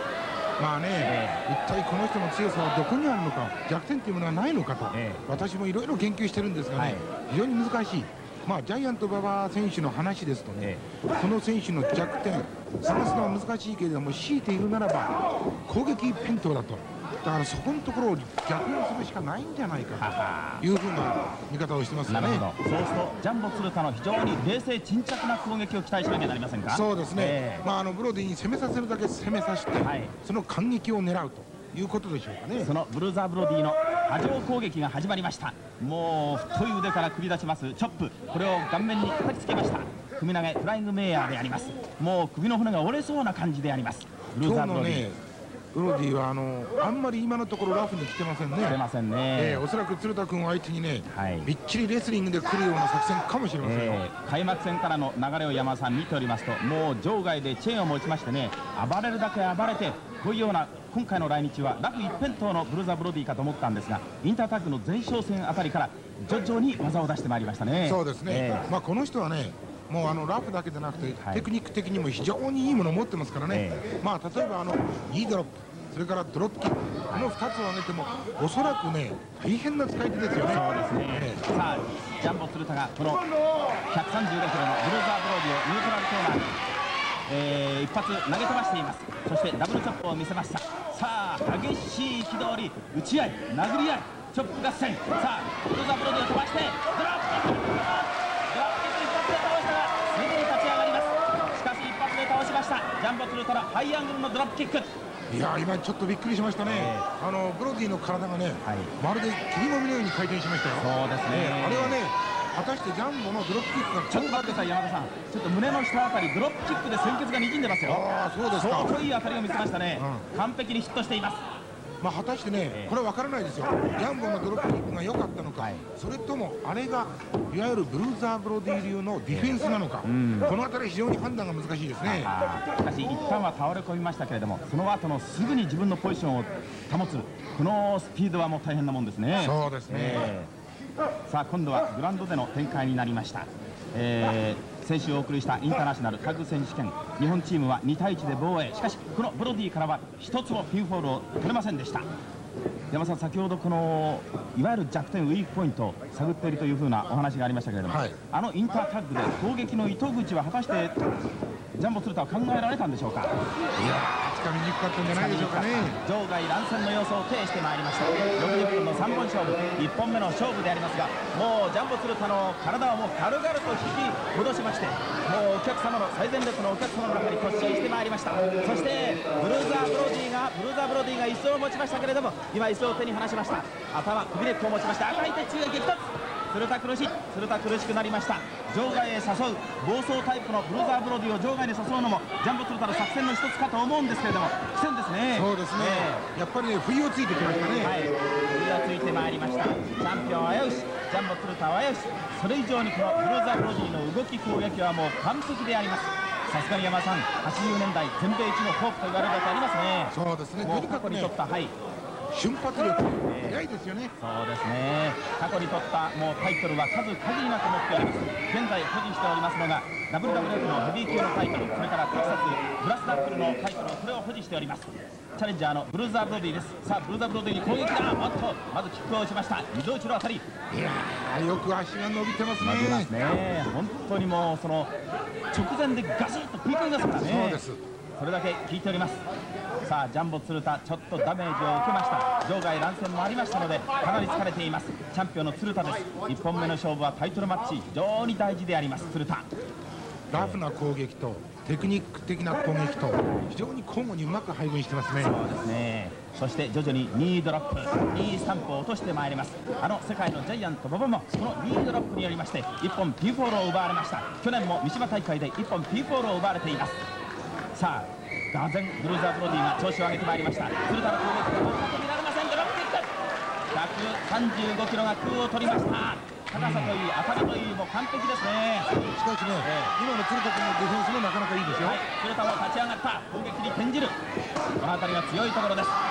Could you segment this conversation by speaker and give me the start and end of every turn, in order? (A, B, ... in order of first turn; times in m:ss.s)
0:00.6-0:20.1 A
0:01.0-0:01.4 B
0:04.9-0:05.2 B
0:06.7-0:07.1 B
0:20.0-0:20.6 B
0:20.6-0:22.5 A
0:22.1-0:27.6 B
0:26.7-0:32.7 A
0:29.8-0:30.1 B
0:32.6-0:45.1 B
0:44.4-0:45.2 A
0:45.7-0:48.8 A
0:48.6-0:49.6 B
0:49.3-0:54.0 A
0:51.1-0:51.5 B
0:53.6-1:08.7 B
1:07.8-1:21.4 A
1:11.2-1:11.5 B
1:13.5-1:13.9 B
1:20.4-1:23.2 B
1:23.9-1:26.5 B
1:27.3-1:44.9 B
1:45.3-1:54.7 A
1:46.6-1:47.1 B
1:48.6-1:48.9 B
1:50.7-1:52.0 B
1:54.1-1:58.0 B
1:57.8-1:59.0 A
1:58.5-2:01.4 B
2:00.0-2:00.2 A
2:02.0-2:12.4 A
2:05.6-2:05.8 B
2:09.3-2:10.5 B
2:12.0-2:20.5 B
2:19.4-2:20.3 A
2:21.3-2:32.1 B
2:32.9-2:41.0 B
2:37.8-2:38.2 A
2:41.7-2:43.3 B
2:43.7-2:46.0 A
2:45.1-3:16.2 B
3:15.3-3:18.0 A
3:17.8-3:31.7 B
3:30.1-3:31.4 A
3:32.3-3:34.1 A
3:33.2-3:33.6 B
3:34.2-3:50.4 B
3:50.7-3:53.1 A
3:52.6-3:54.9 B
3:55.5-3:57.6 B
3:57.2-3:57.8 A
3:58.2-3:59.2 B
3:59.8-4:09.5 B
4:10.3-4:15.4 A
4:10.3-4:10.6 B
4:15.2-4:27.0 B
4:27.7-4:33.1 B
4:33.7-4:38.9 B
4:36.5-4:37.0 A
4:39.1-4:42.0 A
4:39.6-4:39.9 B
4:41.8-4:44.2 B
4:44.8-4:46.0 B